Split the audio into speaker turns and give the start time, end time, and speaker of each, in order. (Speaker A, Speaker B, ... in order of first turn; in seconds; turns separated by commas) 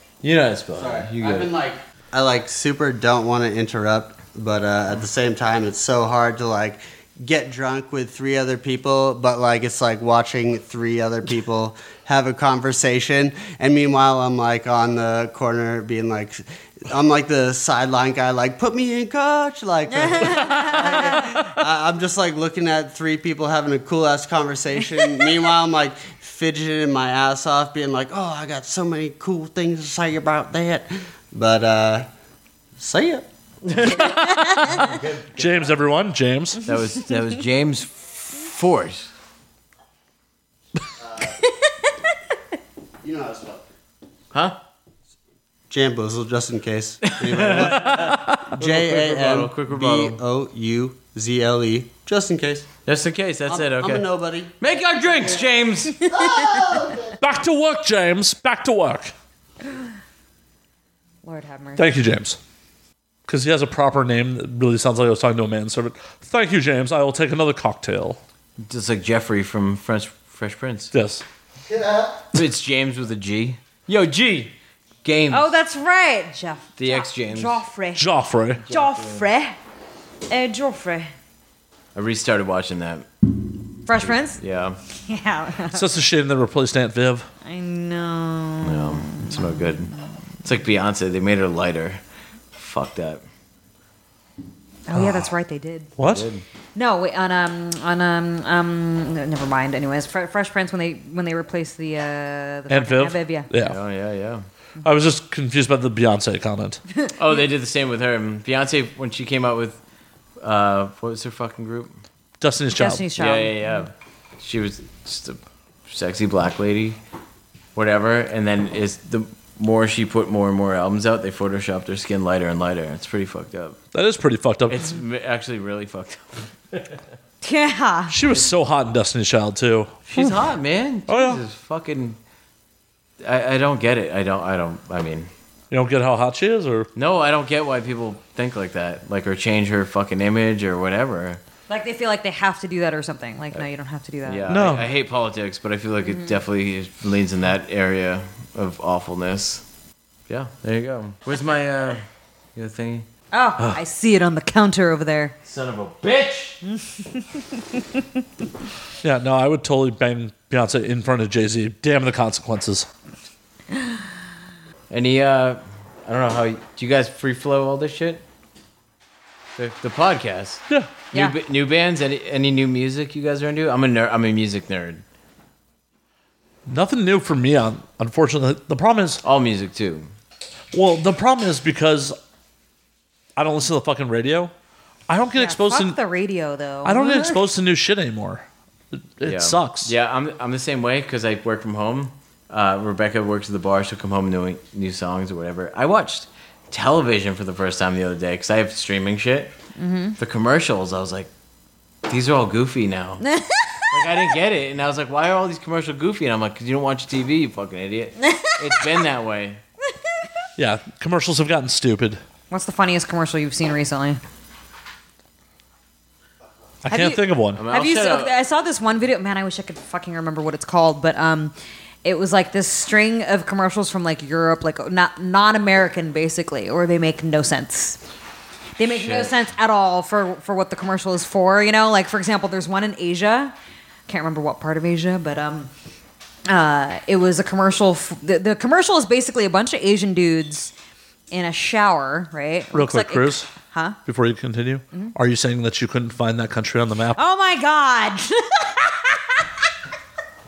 Speaker A: 0.2-1.5, Speaker B: 0.8-32.1, Speaker C: 20.0-21.2, Speaker B: 32.8-33.3, Speaker A: 33.7-34.1, Speaker B: 33.8-34.1, Speaker C: 34.2-34.8, Speaker D: 34.5-34.9, Speaker B: 34.6-35.8, Speaker D: 35.4-36.7, Speaker A: 36.6-39.1, Speaker B: 41.0-41.4, Speaker C: 41.4-41.9, Speaker B: 43.0-43.6, Speaker A: 44.3-44.6, Speaker B: 45.7-52.7, Speaker A: 47.1-50.2, Speaker D: 47.8-48.3, Speaker A: 52.9-54.0, Speaker B: 53.5-54.6, Speaker A: 54.6-56.1, Speaker C: 56.0-56.8, Speaker B: 56.1-57.2, Speaker D: 57.2-59.1, Speaker C: 61.2-61.9, Speaker D: 61.8-62.4, Speaker D: 63.3-68.2, Speaker A: 68.6-70.9, Speaker D: 70.9-71.2, Speaker B: 71.7-72.2, Speaker A: 72.3-75.5, Speaker C: 75.3-78.1, Speaker A: 76.8-77.6, Speaker D: 78.0-78.6, Speaker A: 78.6-79.2, Speaker C: 78.7-79.6, Speaker C: 80.3-81.1, Speaker A: 82.0-84.8, Speaker C: 83.9-84.4, Speaker C: 84.9-85.8, Speaker D: 85.7-87.3, Speaker C: 87.4-89.6, Speaker A: 88.6-92.0, Speaker A: 92.5-93.2, Speaker C: 94.9-95.9, Speaker D: 95.0-95.3, Speaker D: 96.0-96.3, Speaker A: 96.0-96.5, Speaker C: 96.8-103.5, Speaker D: 102.7-103.8, Speaker A: 103.6-104.5, Speaker D: 104.8-106.8, Speaker A: 107.2-109.8, Speaker A: 110.4-112.0, Speaker D: 112.4-113.0, Speaker C: 112.7-113.7, Speaker A: 113.2-117.0, Speaker A: 117.8-123.8, Speaker D: 123.9-124.9, Speaker A: 124.7-127.0, Speaker C: 127.4-128.2, Speaker D: 128.1-130.4, Speaker A: 130.1-132.2, Speaker D: 131.1-131.4, Speaker A: 133.2-135.3, Speaker D: 135.7-136.9, Speaker A: 136.9-141.4, Speaker C: 141.7-144.4, Speaker A: 144.2-149.7, Speaker D: 144.5-144.9, Speaker C: 146.1-146.4, Speaker A: 150.3-153.1, Speaker C: 153.3-155.3, Speaker A: 155.4-156.6, Speaker C: 156.7-158.0, Speaker D: 159.0-162.9, Speaker A: 164.9-168.2, Speaker A: 169.6-175.0, Speaker D: 176.7-179.2, Speaker A: 179.2-180.1, Speaker D: 180.7-182.2, Speaker D: 183.4-184.5, Speaker D: 185.1-186.0, Speaker C: 185.3-187.4, Speaker D: 186.8-189.9, Speaker A: 189.2-199.6, Speaker C: 199.8-200.2, Speaker A: 200.2-201.3, Speaker A: 202.1-203.2, Speaker C: 203.2-204.0, Speaker A: 203.9-209.6, Speaker C: 208.2-209.0, Speaker D: 210.6-212.2, Speaker C: 212.5-214.2, Speaker D: 216.8-217.6, Speaker C: 216.9-221.5, Speaker A: 217.5-218.3, Speaker C: 222.0-228.0, Speaker C: 228.8-233.6, Speaker A: 228.8-229.3, Speaker C: 234.1-235.7, Speaker C: 236.5-240.7, Speaker C: 241.3-244.0, Speaker D: 242.7-243.5, Speaker D: 244.1-247.2, Speaker C: 247.2-249.5